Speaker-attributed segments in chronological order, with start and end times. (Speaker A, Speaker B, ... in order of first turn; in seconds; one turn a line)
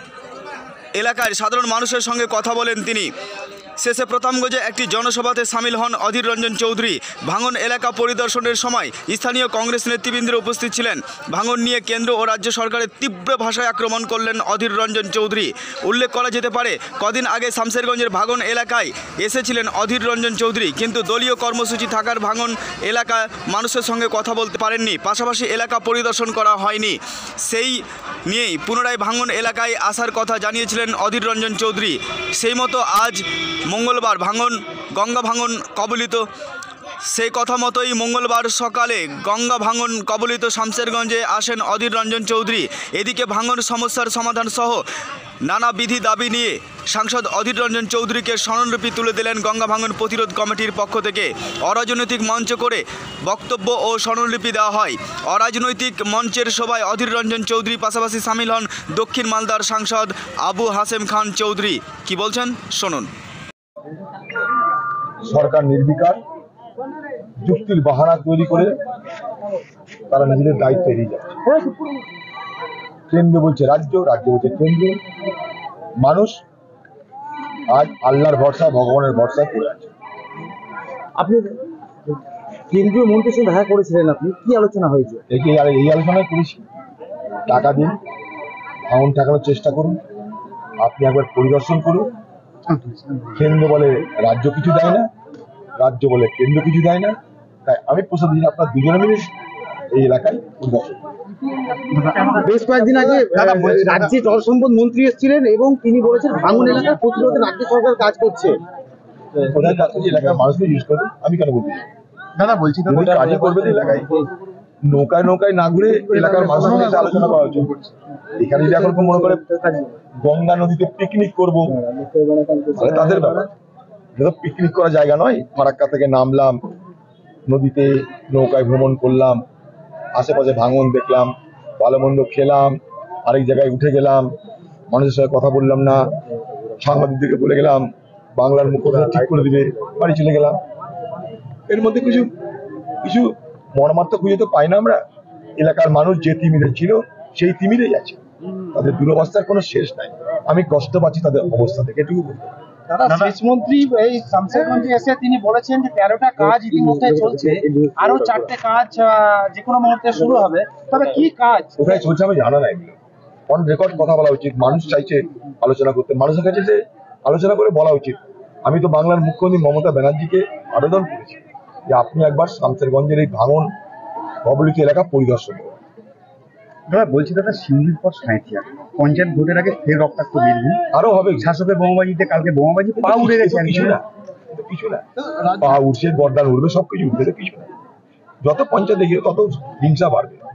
Speaker A: 0.9-3.1
Speaker A: 3.8-36.2
Speaker A: 37.1-44.8
Speaker A: 45.4-63.1
Speaker B: 65.2-66.2
Speaker B: 67.4-68.8
Speaker B: 70.1-71.4
Speaker B: 73.1-75.0
Speaker B: 76.0-76.4
Speaker B: 77.7-79.9
Speaker C: 82.7-85.2
Speaker B: 85.3-86.6
Speaker B: 87.5-87.9
Speaker B: 88.9-90.0
Speaker B: 90.8-92.1
Speaker D: 92.7-93.5
Speaker B: 93.3-95.1
Speaker B: 95.8-99.3
Speaker B: 99.9-101.0
Speaker D: 101.9-102.3
Speaker C: 102.3-108.6
Speaker D: 103.4-104.0
Speaker B: 109.4-111.8
Speaker D: 112.4-113.0
Speaker B: 112.9-114.2
Speaker B: 114.9-117.7
Speaker D: 116.4-117.5
Speaker B: 118.4-119.4
Speaker B: 120.1-121.8
Speaker C: 122.0-123.3
Speaker B: 122.7-123.5
Speaker B: 124.2-126.5
Speaker B: 127.5-129.4
Speaker B: 130.1-134.2
Speaker B: 134.9-136.1
Speaker B: 136.8-137.8
Speaker B: 138.3-140.6
Speaker B: 141.7-142.3
Speaker B: 143.0-145.0
Speaker B: 145.6-148.2
Speaker B: 148.7-152.5
Speaker E: 153.0-161.8
Speaker C: 156.4-158.4
Speaker B: 161.8-162.9
Speaker B: 163.5-171.4
Speaker B: 171.9-173.7
Speaker B: 174.4-175.7
Speaker D: 176.9-180.8
Speaker B: 180.9-181.5
Speaker D: 181.4-184.0
Speaker B: 183.0-187.7
Speaker B: 188.4-190.4